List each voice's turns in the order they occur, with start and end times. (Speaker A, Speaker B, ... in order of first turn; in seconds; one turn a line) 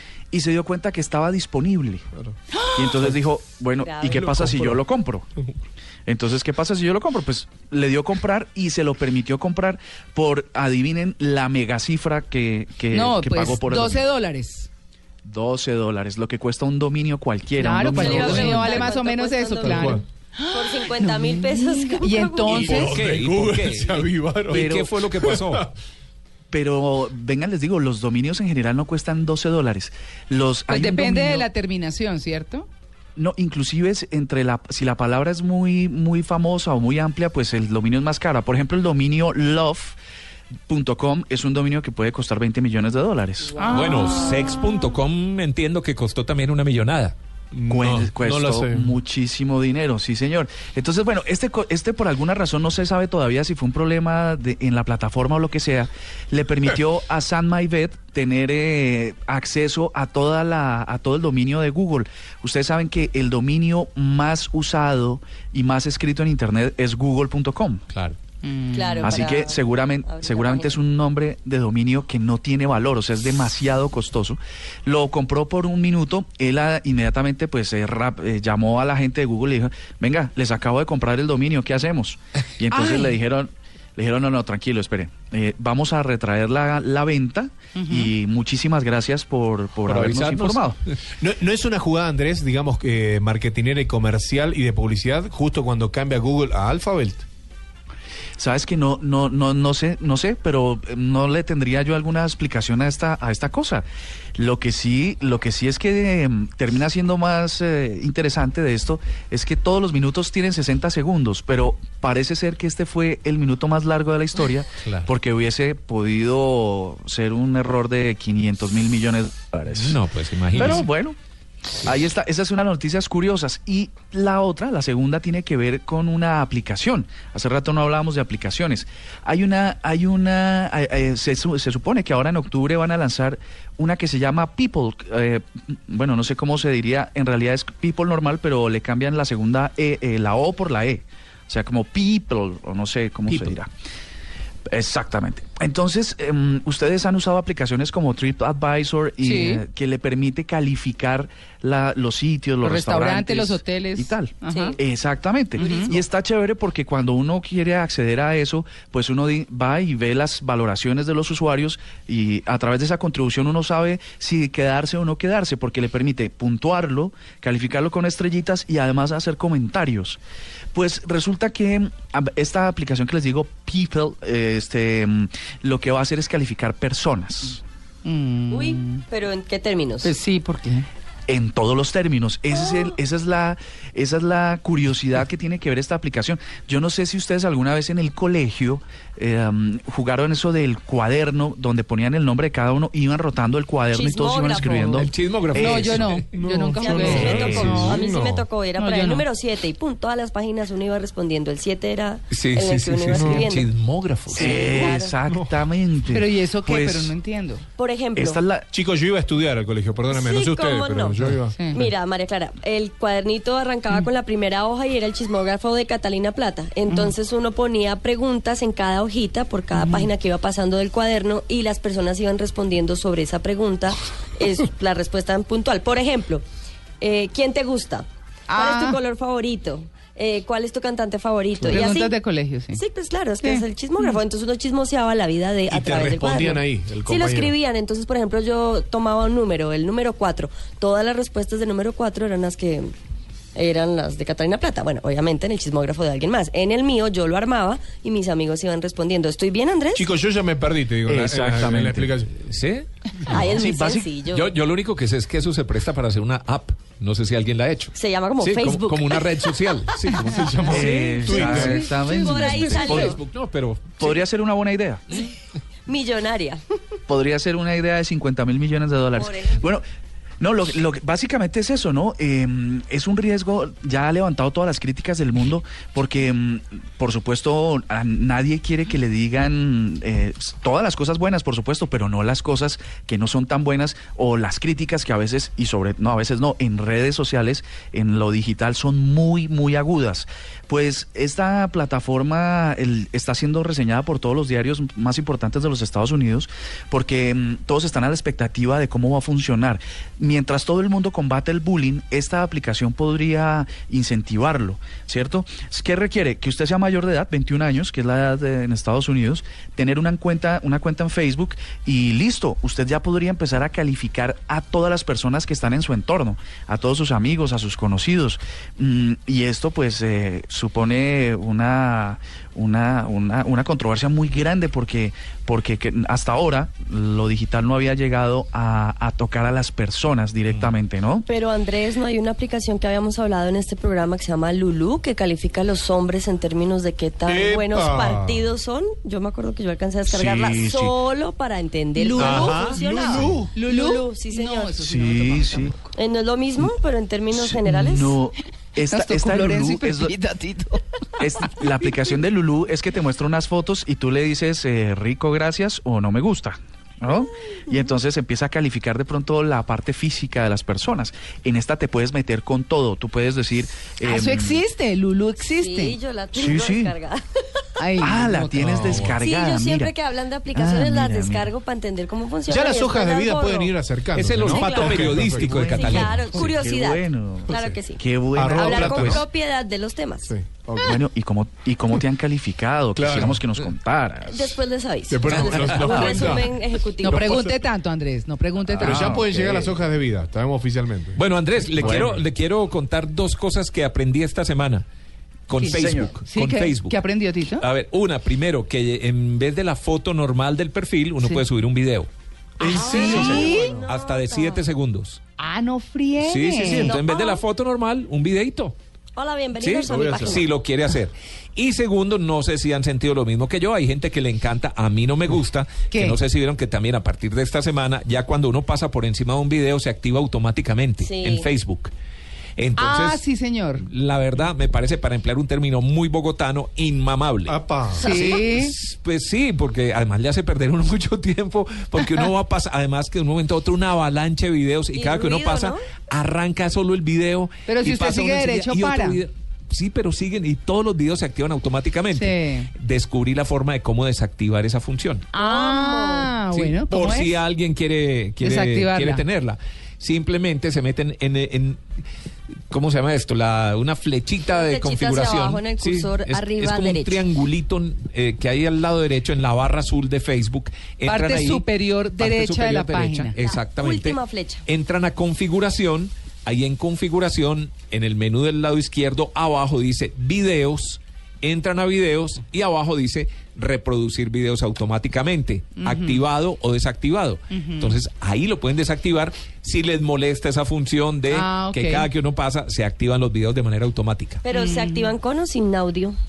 Speaker A: 0.3-2.0
Speaker B: 2.5-2.9
Speaker A: 2.7-5.3
Speaker C: 3.8-4.2
Speaker D: 4.1-4.8
Speaker A: 6.1-14.1
Speaker B: 12.9-14.7
Speaker A: 15.2-18.6
Speaker B: 17.6-23.0
Speaker C: 17.9-22.9
Speaker D: 18.4-18.7
Speaker D: 19.7-20.0
Speaker E: 22.5-25.7
Speaker D: 22.7-25.7
Speaker A: 24.5-25.0
Speaker A: 26.5-31.5
Speaker B: 30.7-32.7
Speaker A: 33.2-40.0
Speaker A: 40.7-43.6
Speaker B: 43.6-44.7
Speaker E: 43.7-47.1
Speaker D: 47.5-49.0
Speaker A: 47.7-67.8
Speaker E: 67.9-68.2
Speaker B: 68.4-69.2
Speaker C: 68.7-70.8
Speaker A: 69.0-90.8
Speaker B: 82.8-83.1
Speaker B: 87.8-88.1
Speaker E: 89.8-91.0
Speaker D: 91.2-97.2
Speaker A: 98.4-103.8
Speaker A: 104.4-120.0
Speaker E: 119.7-120.9
Speaker A: 120.5-121.2
Speaker A: 121.8-143.7
Speaker A: 144.7-170.2
Speaker B: 149.2-149.6
Speaker B: 152.6-154.8
Speaker C: 154.5-154.8
Speaker B: 155.6-156.0
Speaker A: 170.7-177.6
Speaker B: 178.1-179.0
Speaker C: 178.5-180.1
Speaker B: 180.0-180.9
Speaker A: 181.3-196.2
Speaker C: 193.9-195.1
Speaker E: 195.0-196.3
Speaker B: 195.6-197.4
Speaker D: 196.3-198.5
Speaker C: 196.8-203.7
Speaker A: 197.1-198.0
Speaker B: 198.8-199.3
Speaker E: 202.3-204.9
Speaker D: 203.1-203.5
Speaker C: 204.3-205.1
Speaker A: 204.3-207.1
Speaker B: 206.1-207.7
Speaker C: 207.8-208.4
Speaker A: 208.2-208.7
Speaker D: 208.7-211.6
Speaker C: 210.1-211.2
Speaker B: 211.5-211.9
Speaker C: 211.7-226.4
Speaker B: 216.9-217.1
Speaker B: 219.8-220.1
Speaker C: 227.0-228.1
Speaker B: 228.5-229.0
Speaker C: 228.6-232.2
Speaker B: 231.6-232.8
Speaker C: 232.8-242.9
Speaker B: 233.4-234.2
Speaker D: 235.7-237.6
Speaker C: 243.6-250.1
Speaker D: 249.9-252.3
Speaker A: 251.1-252.1
Speaker E: 252.4-253.5
Speaker C: 253.3-254.5
Speaker A: 253.4-254.1
Speaker E: 254.3-260.8
Speaker C: 257.9-259.2
Speaker D: 260.2-261.9
Speaker A: 260.7-263.2
Speaker C: 260.7-263.2
Speaker E: 261.4-261.7
Speaker E: 262.3-264.2
Speaker A: 264.0-265.0
Speaker C: 265.9-266.6
Speaker A: 267.1-269.8
Speaker C: 269.2-269.7
Speaker A: 270.4-331.3
Speaker C: 331.3-344.8
Speaker D: 337.2-338.5
Speaker D: 340.1-340.9
Speaker B: 342.0-342.8
Speaker D: 342.2-343.5
Speaker B: 343.5-345.8
Speaker A: 344.8-345.8
Speaker C: 345.9-348.2
Speaker A: 347.3-350.1
Speaker B: 348.8-351.2
Speaker A: 351.2-364.6
Speaker B: 364.0-366.0
Speaker C: 365.5-367.2
Speaker A: 366.3-366.9
Speaker B: 367.8-369.0
Speaker A: 368.0-369.9
Speaker D: 368.6-369.1
Speaker C: 369.1-373.8
Speaker A: 370.5-371.5
Speaker D: 372.5-376.3
Speaker E: 374.1-376.5
Speaker C: 374.4-380.3
Speaker A: 376.3-379.2
Speaker D: 378.4-379.2
Speaker D: 380.2-381.0
Speaker A: 380.8-384.6
Speaker D: 383.0-383.4
Speaker C: 384.3-387.4
Speaker D: 385.1-386.5
Speaker A: 385.4-386.4
Speaker B: 387.0-389.2
Speaker A: 388.7-389.8
Speaker D: 388.8-391.2
Speaker E: 391.1-394.9
Speaker D: 391.7-392.2
Speaker A: 391.8-392.1
Speaker E: 395.5-402.1
Speaker B: 395.5-397.6
Speaker A: 395.7-396.2
Speaker C: 402.6-404.6
Speaker D: 402.6-403.9
Speaker A: 402.7-403.5
Speaker B: 402.9-403.8
Speaker E: 403.1-405.2
Speaker B: 405.4-407.0
Speaker E: 406.2-408.8
Speaker C: 406.8-407.4
Speaker C: 409.1-410.5
Speaker E: 409.6-421.9
Speaker D: 409.8-410.4
Speaker B: 415.9-416.2
Speaker C: 421.0-421.5
Speaker E: 422.6-423.2
Speaker B: 422.8-423.9
Speaker E: 423.8-445.3
Speaker D: 427.5-428.1
Speaker C: 428.0-428.4
Speaker B: 428.0-428.8
Speaker C: 435.0-435.8
Speaker B: 437.7-439.2
Speaker B: 442.1-442.7
Speaker B: 445.3-447.4
Speaker C: 445.4-446.3
Speaker E: 446.5-451.8
Speaker B: 448.4-449.2
Speaker E: 452.7-484.4
Speaker C: 454.5-457.2
Speaker B: 461.1-463.3
Speaker C: 463.4-464.6
Speaker B: 475.8-476.3
Speaker B: 477.5-478.0
Speaker B: 481.3-482.1
Speaker C: 484.4-486.2
Speaker B: 484.5-485.1